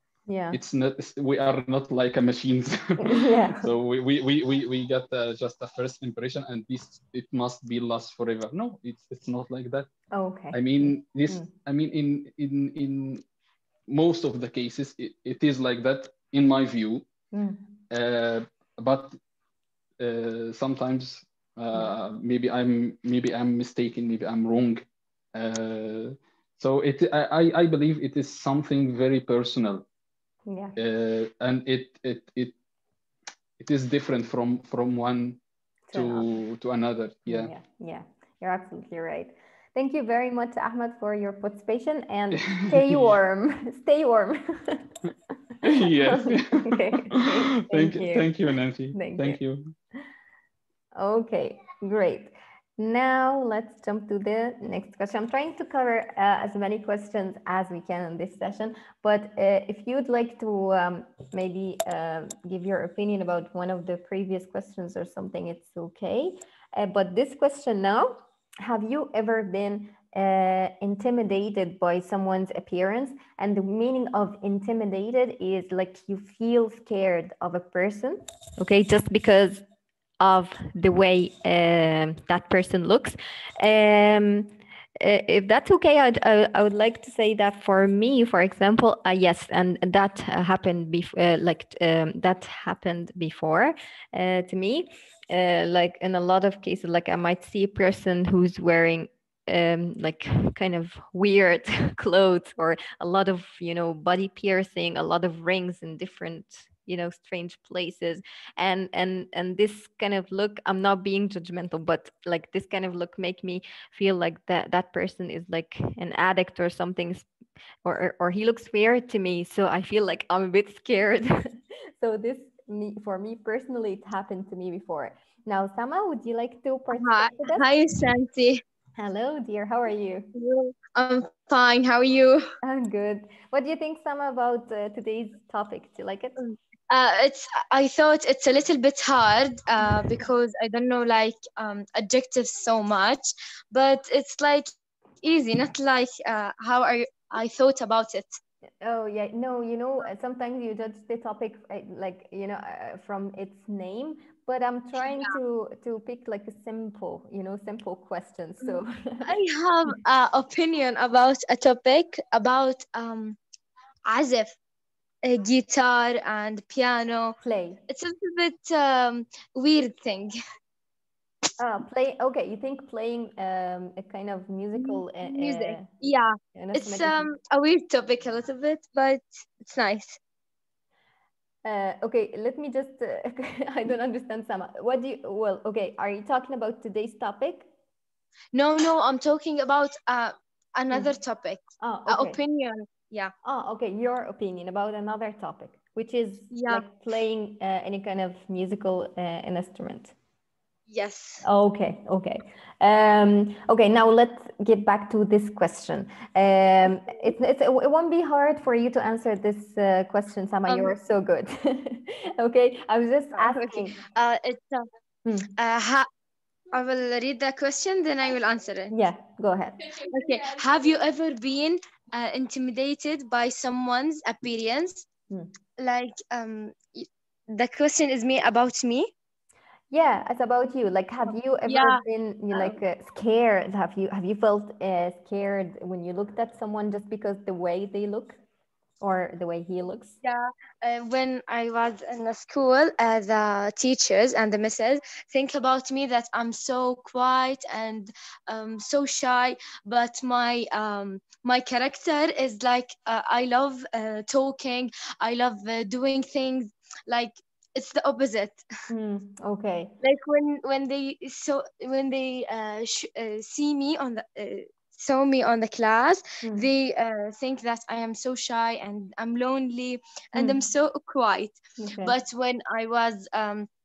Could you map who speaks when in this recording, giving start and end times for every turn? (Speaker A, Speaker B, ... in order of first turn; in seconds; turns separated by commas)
Speaker A: 0.3-0.6, Speaker B: 0.5-9.9, Speaker A: 3.0-3.7, Speaker A: 10.1-11.5, Speaker B: 10.5-13.2, Speaker B: 13.9-17.1, Speaker A: 17.3-17.6, Speaker B: 17.9-19.2, Speaker B: 20.0-29.9, Speaker A: 30.5-30.8, Speaker B: 30.8-32.5, Speaker B: 33.6-35.4, Speaker A: 35.9-36.3, Speaker B: 35.9-37.5, Speaker A: 37.3-44.9, Speaker B: 42.3-43.1, Speaker B: 45.7-49.7, Speaker A: 46.0-48.3, Speaker A: 48.9-49.4, Speaker A: 51.0-79.6, Speaker A: 80.2-117.3, Speaker A: 117.8-127.7, Speaker C: 126.9-128.6, Speaker A: 129.0-130.3, Speaker C: 130.3-132.4, Speaker A: 132.6-136.4, Speaker C: 136.4-144.7, Speaker C: 145.2-148.4, Speaker A: 148.8-159.3, Speaker C: 158.6-163.4, Speaker C: 164.1-164.6, Speaker C: 165.2-167.4, Speaker A: 167.4-167.8, Speaker C: 167.9-170.3, Speaker A: 171.6-175.9, Speaker C: 174.8-180.2, Speaker A: 176.6-177.3, Speaker A: 181.7-187.7, Speaker C: 188.5-193.3, Speaker A: 191.8-192.4, Speaker A: 193.4-200.1, Speaker C: 196.5-196.8, Speaker C: 200.9-201.4, Speaker A: 201.4-213.9, Speaker C: 210.7-210.9, Speaker C: 213.3-214.8, Speaker C: 215.6-216.1, Speaker C: 216.7-218.9, Speaker A: 218.9-219.9, Speaker C: 220.0-225.1, Speaker C: 225.8-229.1, Speaker A: 229.9-238.4, Speaker C: 231.7-232.8, Speaker A: 239.0-240.2, Speaker C: 240.2-258.6, Speaker A: 258.9-259.9, Speaker C: 260.0-273.7, Speaker A: 270.4-270.6, Speaker A: 271.8-272.1